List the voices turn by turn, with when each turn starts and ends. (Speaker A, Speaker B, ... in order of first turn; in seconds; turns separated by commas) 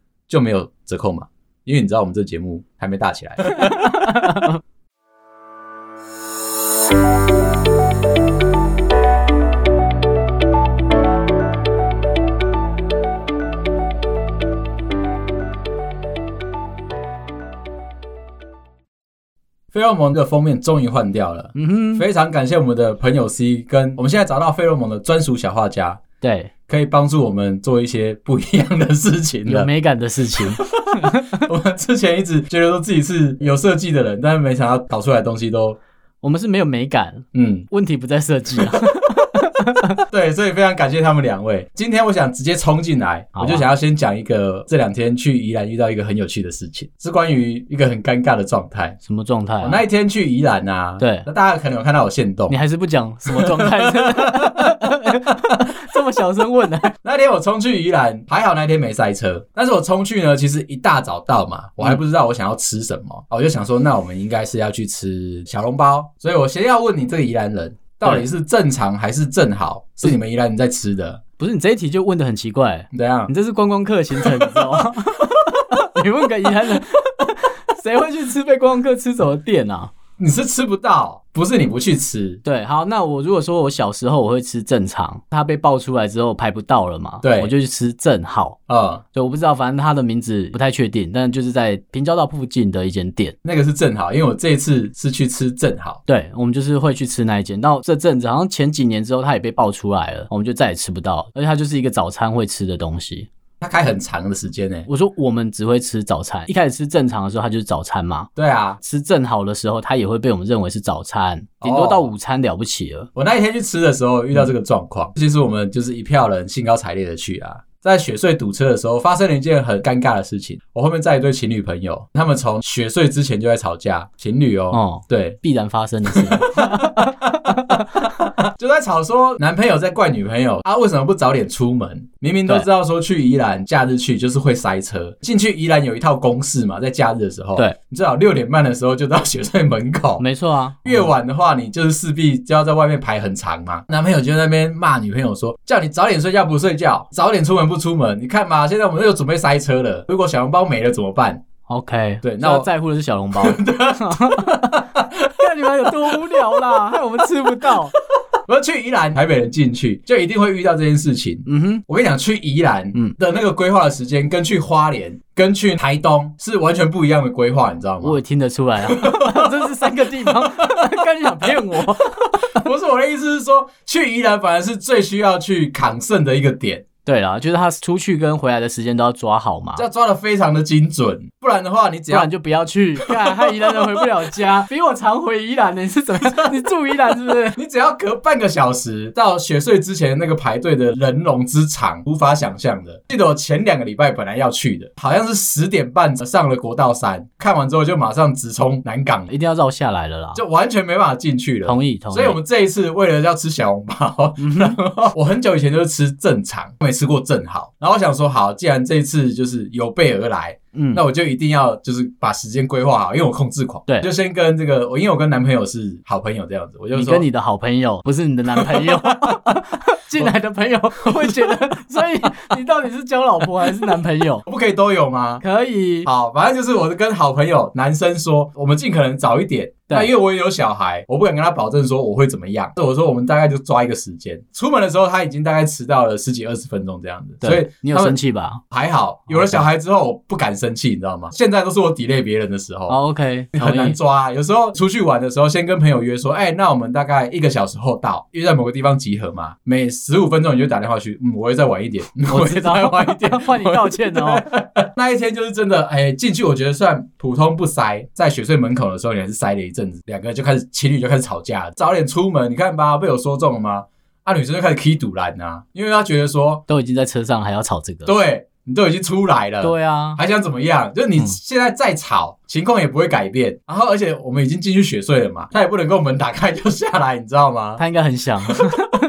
Speaker A: 0.3-4.1, Speaker B: 3.6-4.5, Speaker A: 19.7-26.0, Speaker B: 21.6-22.1, Speaker B: 26.2-26.5, Speaker A: 26.7-29.7, Speaker B: 29.5-31.4, Speaker A: 30.4-35.8, Speaker B: 36.2-40.0, Speaker A: 37.3-37.7, Speaker A: 38.6-38.8, Speaker A: 40.1-49.0, Speaker B: 43.4-43.7, Speaker B: 49.0-49.8, Speaker A: 49.6-52.6, Speaker B: 51.0-51.3, Speaker B: 52.5-56.9, Speaker A: 53.3-54.8, Speaker A: 57.0-71.2, Speaker B: 71.4-79.9, Speaker A: 72.9-73.3, Speaker A: 74.2-74.6, Speaker A: 80.2-82.4, Speaker B: 82.4-88.6, Speaker A: 87.2-87.5, Speaker A: 88.7-89.0, Speaker B: 89.1-93.4, Speaker A: 93.4-96.0, Speaker B: 96.1-103.3, Speaker A: 103.6-104.9, Speaker B: 104.9-108.3, Speaker A: 108.4-108.8, Speaker B: 108.8-113.1, Speaker A: 111.6-112.1, Speaker A: 113.2-125.4, Speaker B: 124.7-127.8, Speaker A: 126.1-140.2, Speaker B: 140.2-141.0, Speaker A: 140.8-151.4, Speaker B: 151.7-154.8, Speaker A: 152.2-152.7, Speaker A: 153.3-155.3, Speaker B: 155.4-157.9, Speaker A: 155.9-156.3, Speaker A: 158.5-168.2, Speaker B: 161.5-161.8, Speaker B: 168.0-172.6, Speaker A: 168.8-170.8, Speaker A: 172.4-176.9, Speaker B: 177.1-179.8, Speaker A: 179.8-182.3, Speaker B: 182.1-187.6, Speaker A: 183.0-184.0, Speaker A: 186.2-186.6, Speaker A: 187.4-199.3, Speaker B: 199.3-200.4, Speaker A: 200.3-217.3, Speaker B: 201.7-202.4, Speaker B: 204.4-204.8, Speaker B: 210.7-211.0, Speaker B: 216.9-224.4, Speaker A: 218.5-219.6, Speaker A: 221.0-221.6, Speaker A: 224.4-225.4, Speaker B: 225.4-226.1, Speaker A: 226.1-238.2, Speaker B: 237.4-238.6, Speaker A: 238.7-243.0, Speaker B: 239.3-239.6, Speaker B: 242.9-244.0, Speaker A: 243.5-266.6, Speaker B: 252.3-254.4, Speaker B: 266.7-268.1, Speaker A: 268.1-277.8, Speaker B: 269.6-270.2, Speaker B: 277.8-278.8